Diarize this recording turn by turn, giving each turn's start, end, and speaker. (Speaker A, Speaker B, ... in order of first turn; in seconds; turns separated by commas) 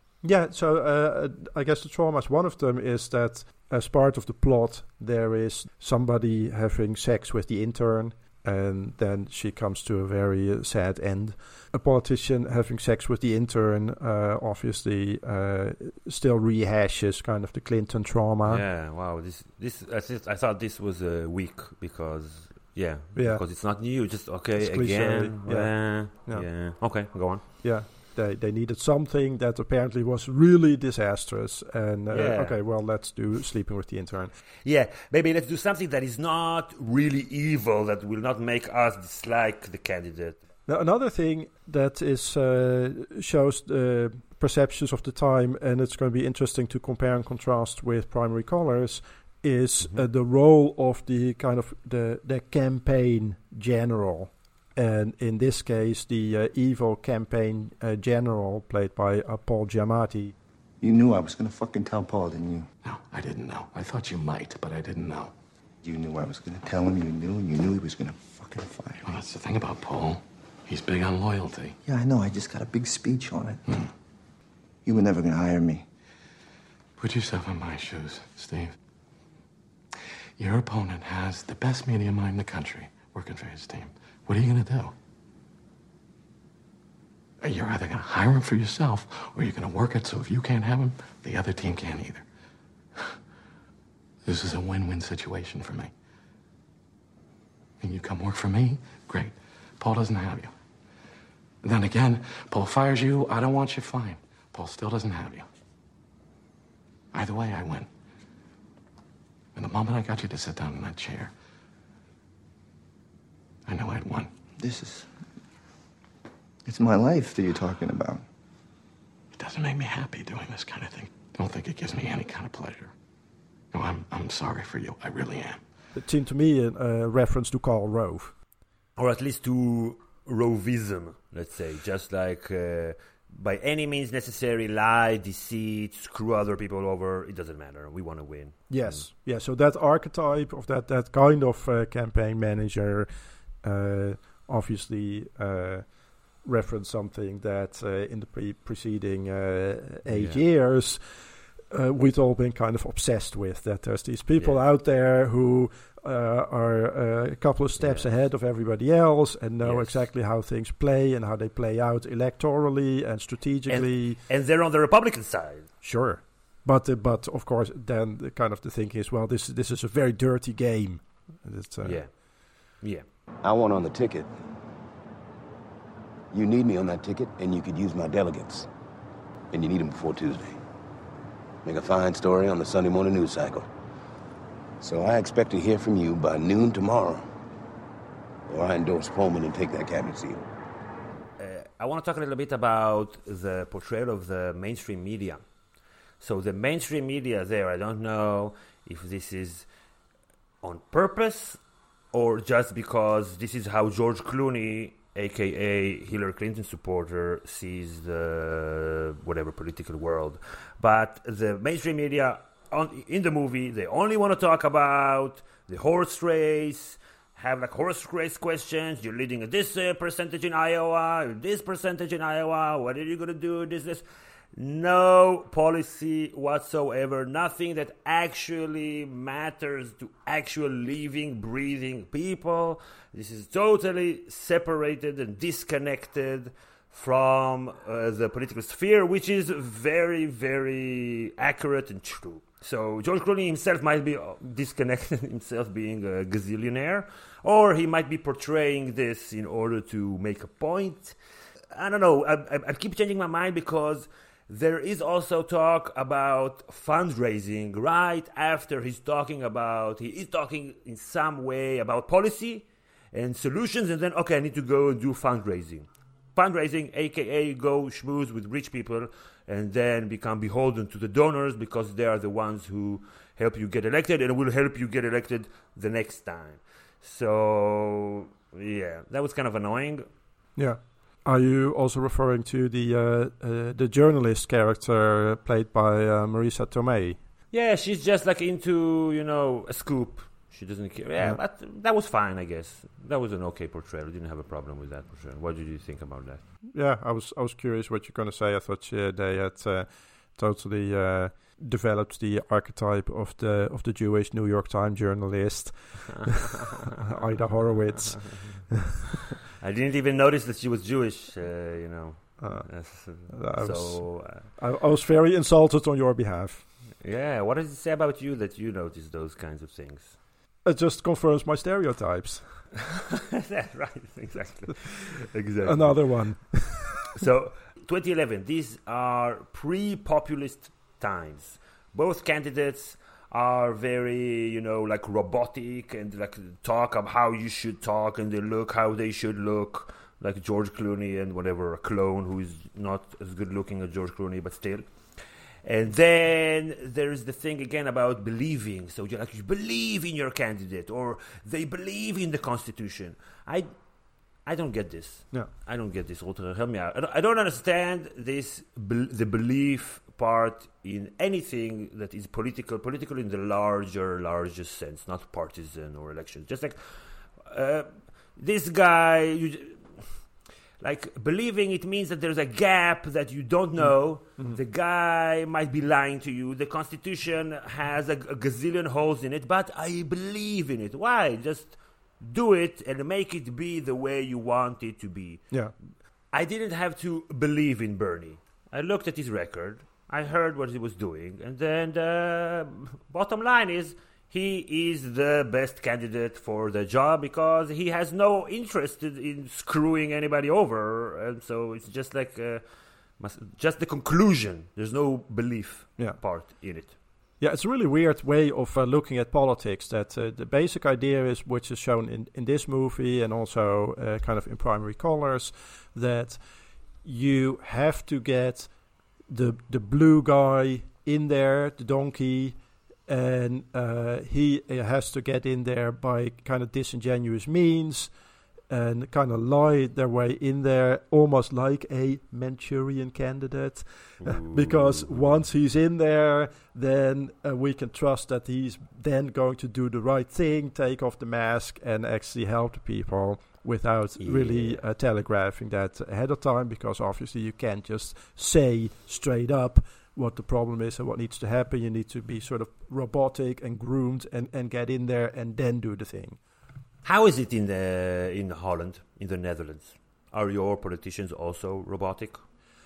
Speaker A: 0.2-18.6, Speaker B: 18.4-27.4, Speaker A: 23.1-23.4, Speaker A: 24.5-26.5, Speaker A: 27.6-34.3, Speaker B: 32.1-32.5, Speaker B: 34.6-40.4, Speaker A: 40.7-60.3, Speaker B: 49.8-50.0, Speaker C: 60.8-62.7, Speaker D: 62.8-65.3, Speaker C: 65.8-69.0, Speaker D: 69.0-71.8, Speaker C: 71.8-73.6, Speaker C: 74.8-75.8, Speaker D: 77.0-78.8, Speaker D: 80.4-84.9, Speaker D: 87.4-92.2, Speaker D: 94.2-95.9, Speaker D: 97.8-100.5, Speaker D: 101.6-105.5, Speaker D: 107.1-107.9, Speaker D: 109.5-111.3, Speaker D: 113.7-114.3, Speaker C: 114.6-115.1, Speaker C: 116.6-118.2, Speaker D: 119.3-122.9, Speaker D: 123.7-125.6, Speaker A: 125.9-128.3, Speaker B: 128.9-139.1, Speaker A: 138.7-143.1, Speaker A: 143.6-164.2, Speaker B: 150.1-150.4, Speaker B: 157.8-158.1, Speaker B: 159.6-160.1, Speaker B: 163.7-165.7, Speaker A: 165.8-172.0, Speaker B: 171.8-173.0, Speaker E: 173.4-174.3, Speaker E: 176.3-178.7, Speaker E: 179.5-180.6, Speaker E: 181.6-183.7, Speaker E: 184.8-187.3, Speaker E: 188.5-190.4, Speaker B: 191.4-195.4, Speaker B: 196.2-199.7, Speaker B: 200.6-201.6, Speaker B: 202.1-224.0, Speaker B: 224.5-251.2, Speaker B: 251.7-280.1, Speaker A: 280.6-287.2, Speaker B: 287.5-296.4, Speaker A: 296.7-309.1, Speaker B: 309.6-314.5, Speaker A: 312.4-316.7, Speaker B: 317.0-320.1, Speaker A: 320.6-322.6, Speaker B: 323.1-325.9, Speaker A: 325.6-327.1, Speaker B: 327.2-344.9, Speaker B: 345.6-353.7, Speaker B: 354.4-366.8, Speaker B: 367.4-369.9, Speaker B: 370.8-385.4, Speaker A: 373.8-374.6, Speaker B: 386.3-402.6, Speaker B: 403.2-406.9, Speaker A: 407.4-416.4, Speaker A: 417.0-418.7, Speaker A: 419.3-428.1, Speaker A: 428.7-456.4, Speaker B: 434.2-435.4, Speaker B: 444.2-444.8, Speaker B: 457.0-462.4